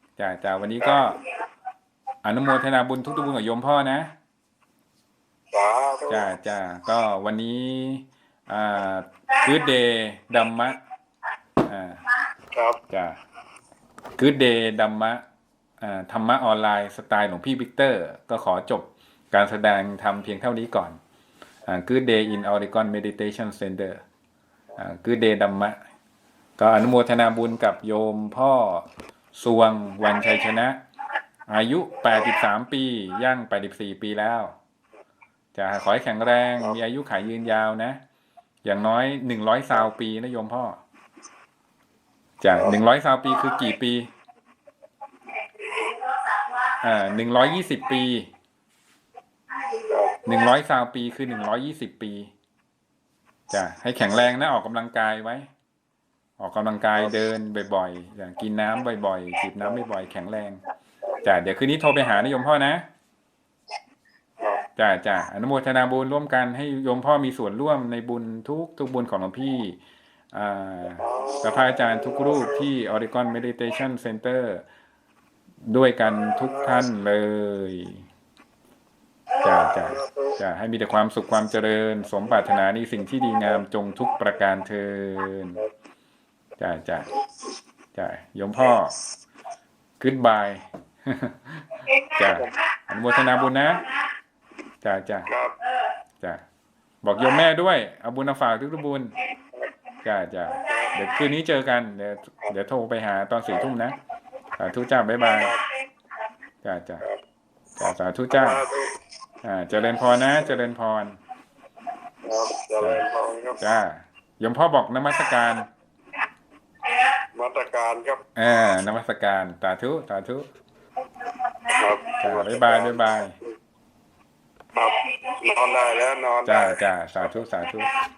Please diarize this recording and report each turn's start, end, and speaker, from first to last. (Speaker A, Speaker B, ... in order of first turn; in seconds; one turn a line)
Speaker A: 0.2-1.2
Speaker A: 2.2-4.1
Speaker B: 5.5-6.2
Speaker A: 6.1-10.8
Speaker A: 11.6-12.0
Speaker A: 12.9-13.2
Speaker A: 14.2-15.2
Speaker A: 15.8-21.0
Speaker A: 21.6-24.0
Speaker A: 24.8-25.8
Speaker A: 26.6-30.8
Speaker A: 31.5-34.5
Speaker A: 35.5-38.0
Speaker A: 38.6-40.8
Speaker A: 42.4-44.1
Speaker A: 46.7-48.3
Speaker B: 49.9-50.2
Speaker A: 50.2-52.3
Speaker A: 53.5-55.5
Speaker A: 56.4-60.6
Speaker A: 61.2-62.8
Speaker A: 64.8-69.8
Speaker A: 70.3-74.6
Speaker B: 71.0-72.6
Speaker A: 75.7-78.0
Speaker A: 79.4-85.6
Speaker B: 79.6-80.4
Speaker A: 86.6-87.1
Speaker A: 87.9-89.0
Speaker A: 90.0-93.9
Speaker A: 94.8-95.3
Speaker B: 95.3-95.5
Speaker A: 97.0-99.2
Speaker A: 100.0-104.0
Speaker B: 100.7-101.0
Speaker A: 104.5-105.5
Speaker B: 105.3-105.7
Speaker A: 106.6-107.0
Speaker A: 107.8-108.6
Speaker B: 108.3-108.9
Speaker A: 109.4-111.2
Speaker B: 112.2-113.6
Speaker A: 113.6-115.7
Speaker B: 117.3-118.2
Speaker A: 118.3-120.5
Speaker B: 121.7-123.0
Speaker A: 122.2-123.3
Speaker B: 124.7-126.8
Speaker A: 126.4-128.0